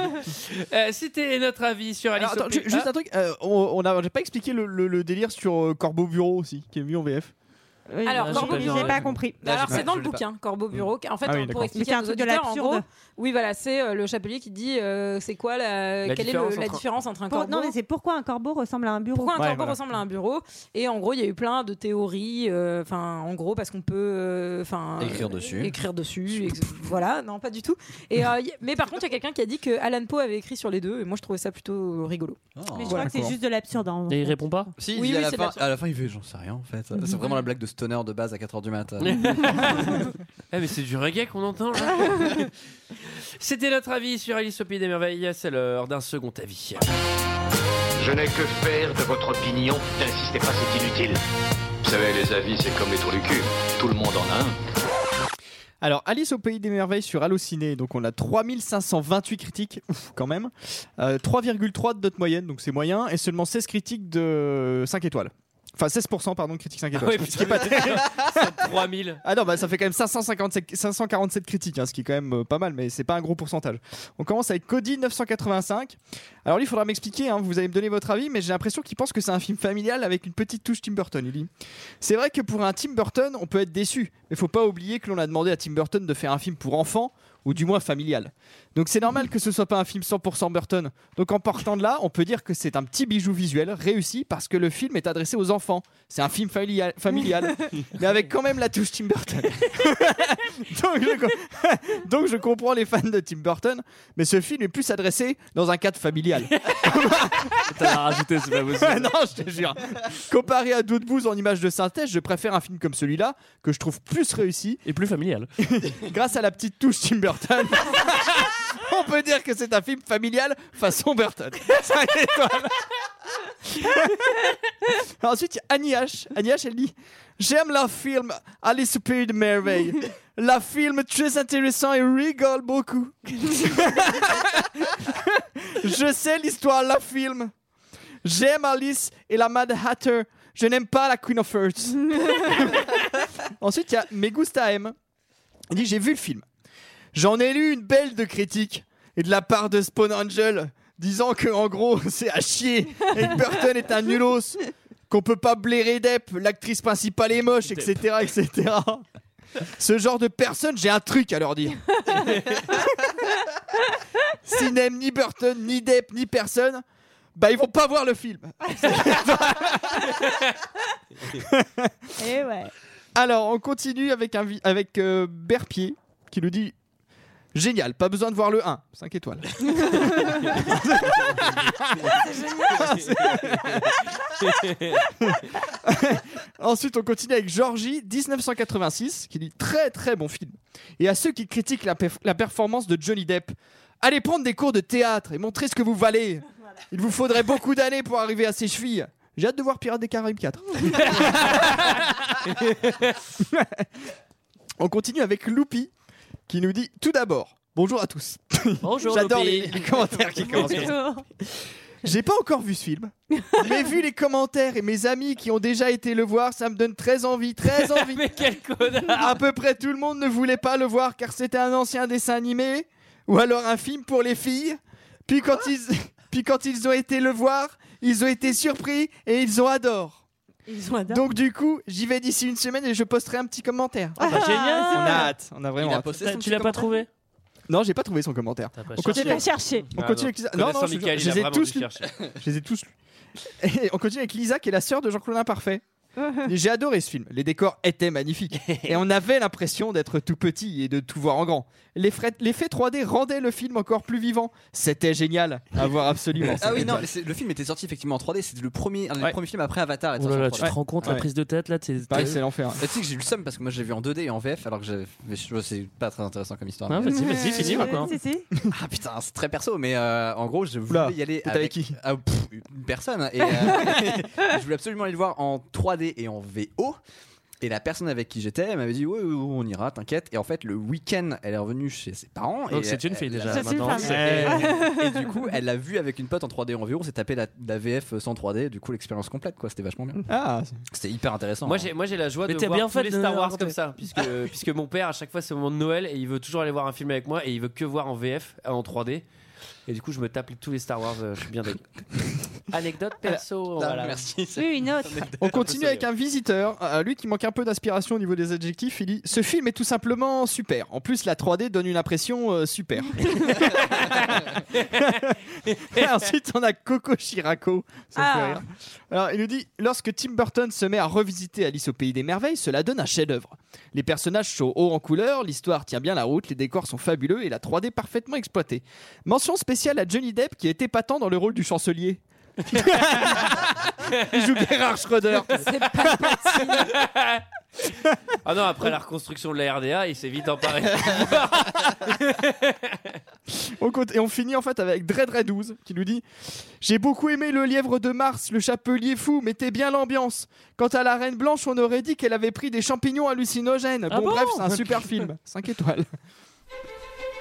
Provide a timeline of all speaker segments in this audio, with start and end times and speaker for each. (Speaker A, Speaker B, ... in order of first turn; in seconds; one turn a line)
Speaker A: 0.2-2.9
Speaker B: 2.1-7.3
Speaker C: 7.9-9.4
Speaker D: 8.0-17.8
Speaker E: 8.2-9.2
Speaker F: 9.4-10.8
Speaker B: 11.2-11.8
Speaker C: 11.7-12.8
Speaker A: 16.1-16.8
Speaker C: 17.3-19.4
Speaker D: 19.1-33.1
Speaker B: 19.4-19.8
Speaker F: 25.0-25.8
Speaker F: 32.6-33.1
Speaker C: 32.7-34.4
Speaker B: 33.0-33.4
Speaker E: 34.1-34.7
Speaker F: 34.8-39.7
Speaker D: 34.9-35.6
Speaker A: 39.0-42.5
Speaker A: 43.4-46.8
Speaker G: 48.0-51.2
Speaker G: 51.8-54.5
Speaker B: 55.8-68.4
Speaker A: 66.9-69.2
Speaker B: 69.2-81.5
Speaker B: 82.0-107.7
Speaker E: 107.6-109.1
Speaker B: 108.7-114.8
Speaker E: 114.8-115.5
Speaker B: 115.6-123.0
Speaker B: 123.7-124.5
Speaker B: 125.2-137.5
Speaker B: 138.2-144.9
Speaker B: 145.7-146.4
Speaker B: 147.1-159.0
Speaker B: 159.8-162.8
Speaker B: 164.4-166.8
Speaker B: 167.3-170.3
Speaker A: 170.2-170.5
Speaker B: 171.4-171.9
Speaker C: 172.2-172.7
Speaker B: 173.1-176.7
Speaker B: 177.5-183.9
Speaker D: 182.1-183.1
Speaker A: 182.9-185.0
Speaker B: 185.3-201.9
Speaker A: 200.9-203.2
Speaker B: 203.4-203.9
Speaker B: 204.8-205.9
Speaker B: 206.5-211.0
Speaker E: 208.8-210.9
Speaker C: 210.5-211.2
Speaker B: 212.0-218.2
Speaker C: 213.4-213.7
Speaker A: 217.8-219.3
Speaker B: 219.1-230.2
Speaker C: 230.7-231.2
Speaker B: 231.1-236.1
Speaker C: 234.2-235.3
Speaker E: 234.2-235.3
Speaker F: 235.8-237.0
Speaker E: 236.2-237.1
Speaker B: 237.7-242.9
Speaker E: 238.8-239.4
Speaker C: 239.1-239.9
Speaker A: 240.0-242.1
Speaker B: 243.6-245.8
Speaker C: 246.2-246.5
Speaker B: 246.4-257.0
Speaker F: 256.5-261.2
Speaker E: 260.2-262.4
Speaker B: 260.6-261.2
Speaker B: 262.1-262.8
Speaker F: 262.8-268.0
Speaker E: 266.9-268.1
Speaker C: 267.0-268.5
Speaker F: 268.7-277.0
Speaker B: 270.9-271.9
Speaker F: 277.6-284.1
Speaker E: 282.7-284.7
Speaker C: 283.4-285.3
Speaker B: 284.0-284.8
Speaker F: 284.6-290.2
Speaker B: 290.3-290.8
Speaker F: 290.9-291.9
Speaker A: 291.6-299.2
Speaker E: 292.5-293.8
Speaker A: 299.9-301.9
Speaker A: 302.7-304.2
Speaker F: 303.8-306.1
Speaker C: 304.6-305.3
Speaker B: 305.4-315.4
Speaker A: 314.0-316.0
Speaker B: 315.9-336.4
Speaker D: 318.1-318.6
Speaker A: 332.7-334.5
Speaker D: 335.6-337.0
Speaker A: 336.8-337.4
Speaker A: 338.4-343.2
Speaker B: 343.6-346.2
Speaker B: 346.8-356.1
Speaker E: 354.1-355.3